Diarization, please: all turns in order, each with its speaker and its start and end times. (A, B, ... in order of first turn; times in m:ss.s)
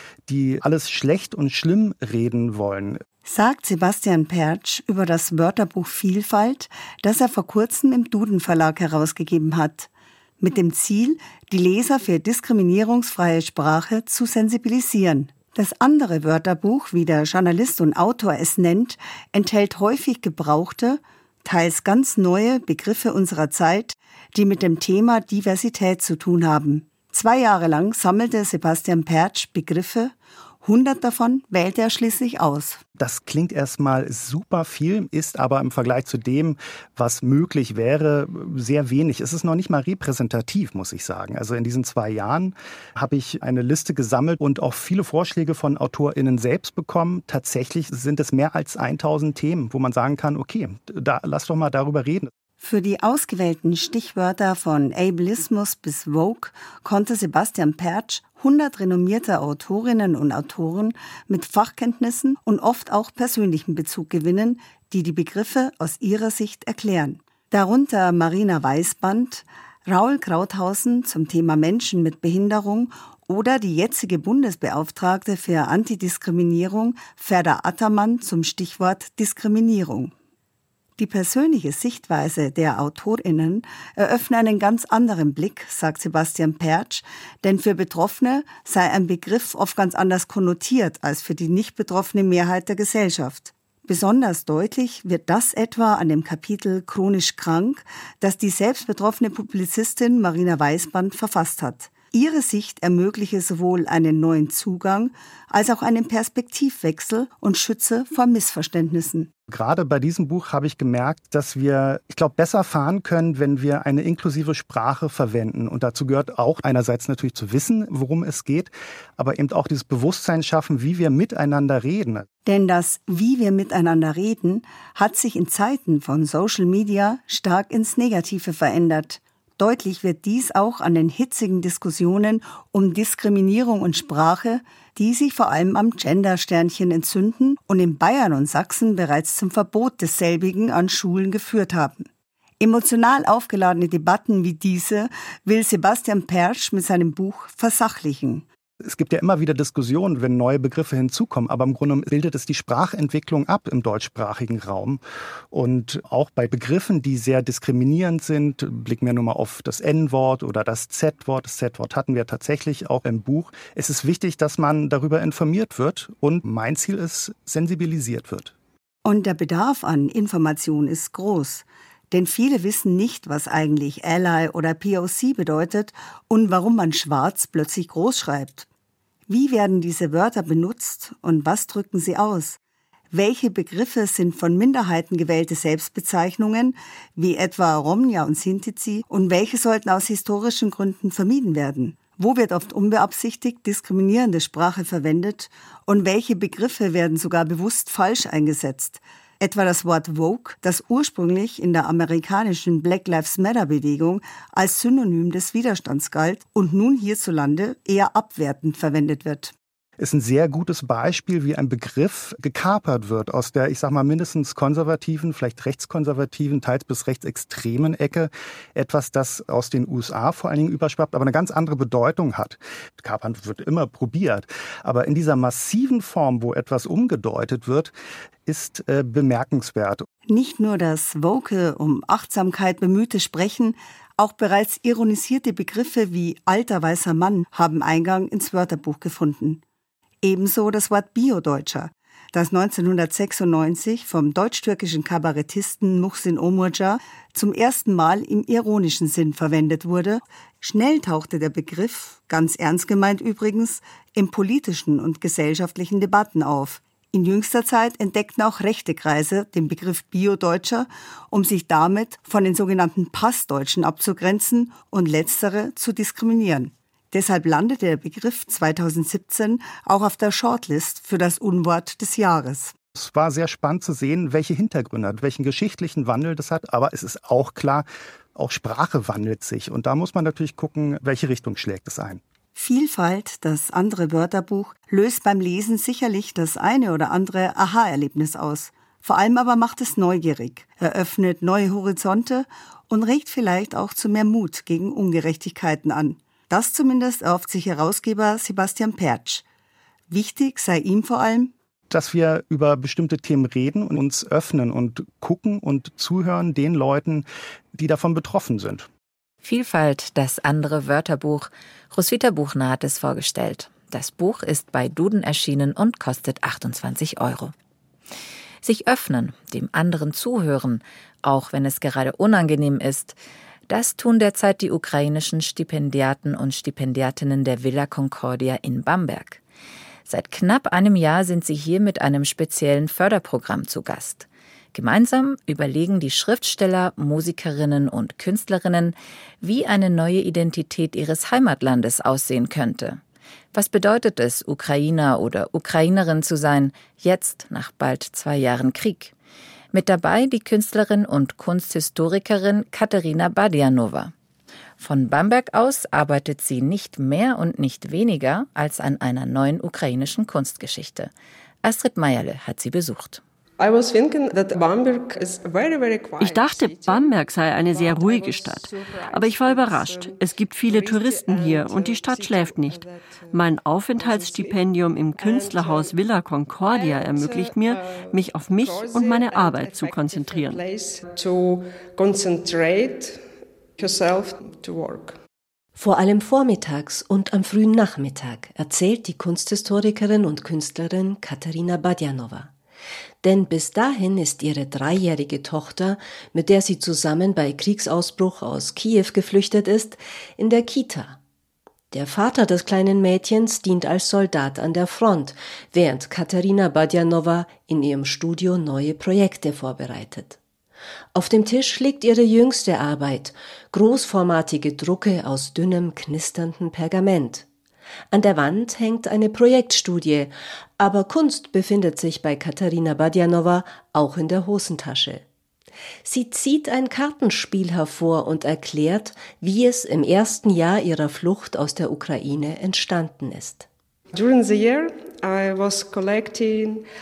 0:00.2-0:03.0 A
0:03.2-0:09.9 B
0:10.4-0:32.8 B
0:33.0-0:52.3 A
0:52.6-1:20.1 B
1:21.0-1:49.3 B
1:49.5-2:02.2 A
2:02.4-2:22.0 B
2:22.6-2:28.4 B
2:28.8-2:35.0 A
2:35.5-2:48.5 A
2:49.0-2:58.7 B
2:59.3-3:02.6 B
3:03.1-3:29.5 B
3:30.0-3:47.9 A
3:48.4-3:50.0 A
3:50.3-3:59.6 B
4:00.2-4:32.7 B
4:33.0-4:42.2 A
4:42.5-4:59.4 B
5:00.1-5:01.5 B
5:01.9-5:08.9 A
5:09.4-5:17.5 C
5:18.6-5:23.2 C
5:23.7-5:29.4 C
5:30.1-5:43.0 C
5:43.5-5:49.1 C
5:49.7-5:54.1 C
5:54.8-6:01.1 C
6:01.6-6:03.2 C
6:03.6-6:14.6 D
6:06.2-6:20.6 E
6:15.2-6:16.0 D
6:16.5-6:23.2 D
6:23.8-6:25.2 D
6:25.7-6:32.5 F
6:33.2-6:41.2 F
6:41.9-6:50.4 F
6:51.1-6:57.4 F
6:58.1-7:05.2 F
7:06.0-7:13.7 F
7:14.1-7:16.8 D